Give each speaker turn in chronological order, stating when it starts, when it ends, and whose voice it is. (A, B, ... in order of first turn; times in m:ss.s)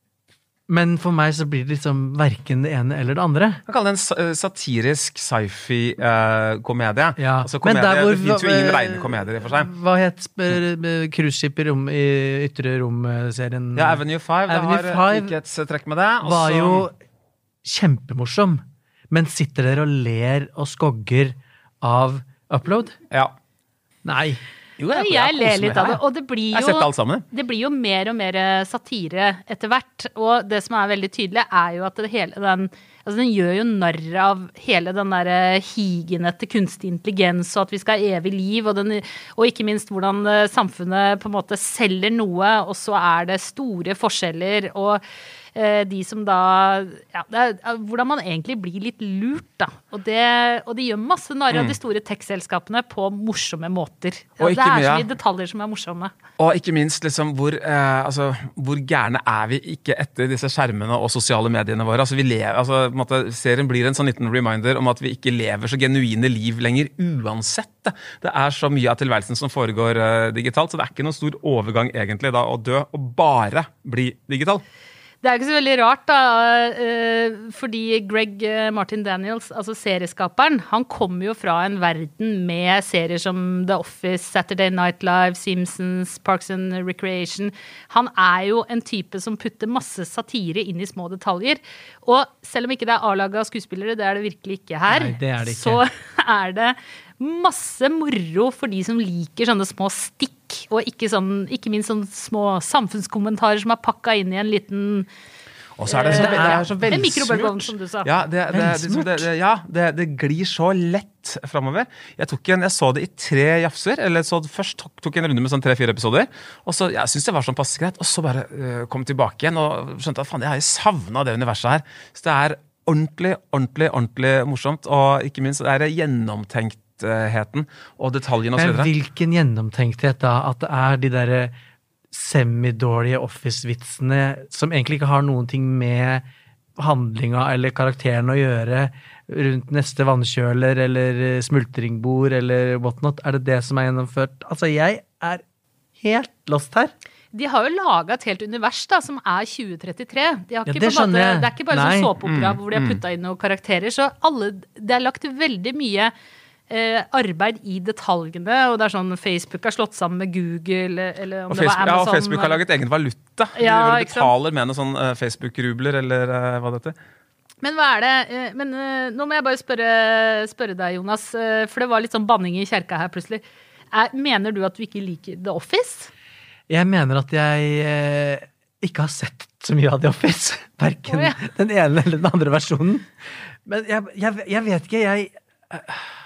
0:00.7-0:03.6 A
0:03.7-0:09.7 B
0:07.2-0:15.3 A
0:13.8-0:16.9 B
0:16.2-0:17.0 A
0:17.6-0:23.0 A
0:24.0-0:24.4 A
0:24.8-0:26.0 B
0:24.9-0:45.0 C
0:26.5-0:27.2 B
0:45.6-0:56.1 C
0:51.5-0:51.8 B
0:54.4-0:55.1 B
0:56.4-1:14.6 B
1:15.2-1:45.1 C
1:34.9-1:35.8 A
1:45.8-2:08.9 B
1:45.9-1:48.1 C
1:46.1-1:46.7 A
1:48.5-1:49.3 A
2:08.6-2:11.5 A
2:12.1-2:16.2 A
2:16.8-2:25.4 A
2:26.0-2:26.9 A
2:27.3-2:36.1 C
2:30.7-2:32.1 A
2:32.2-2:33.0 B
2:36.7-2:42.6 C
2:41.5-2:47.0 B
2:43.6-2:44.3 C
2:47.6-2:56.1 C
2:56.7-3:03.1 A
3:01.1-3:01.4 C
3:03.6-3:06.1 A